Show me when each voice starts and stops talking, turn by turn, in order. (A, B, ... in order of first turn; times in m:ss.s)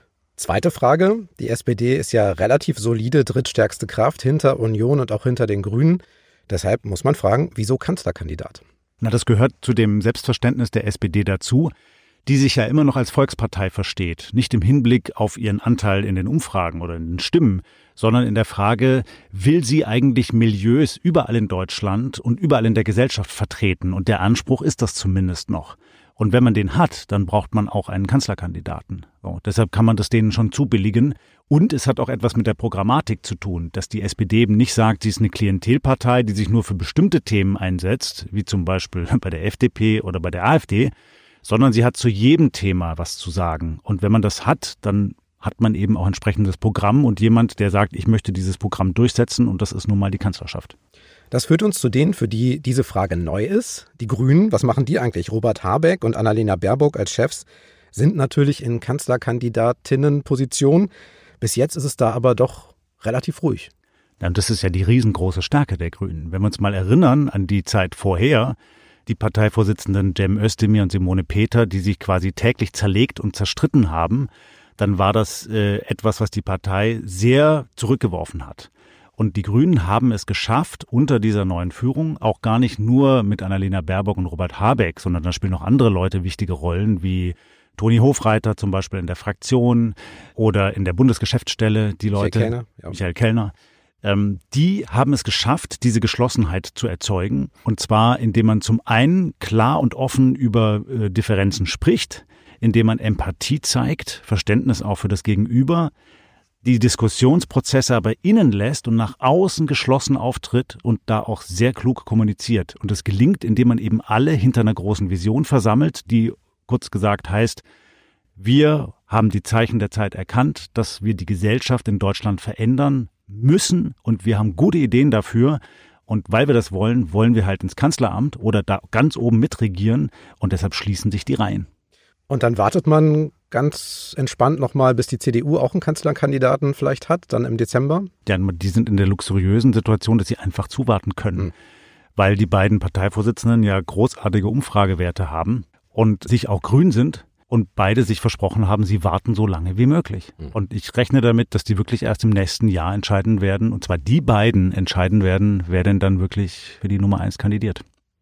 0:00.4-0:08.6 A
0:09.0-0:11.7 B
0:12.2-0:40.9 B
0:41.4-0:50.7 B
0:51.3-1:00.9 A
1:01.4-1:03.7 A
1:04.2-1:08.6 B
1:09.1-1:45.9 B
1:32.2-1:32.9 A
1:46.6-1:57.6 B
1:58.4-2:11.7 B
2:12.3-2:18.1 A
2:18.2-2:21.5 B
2:22.2-2:37.8 B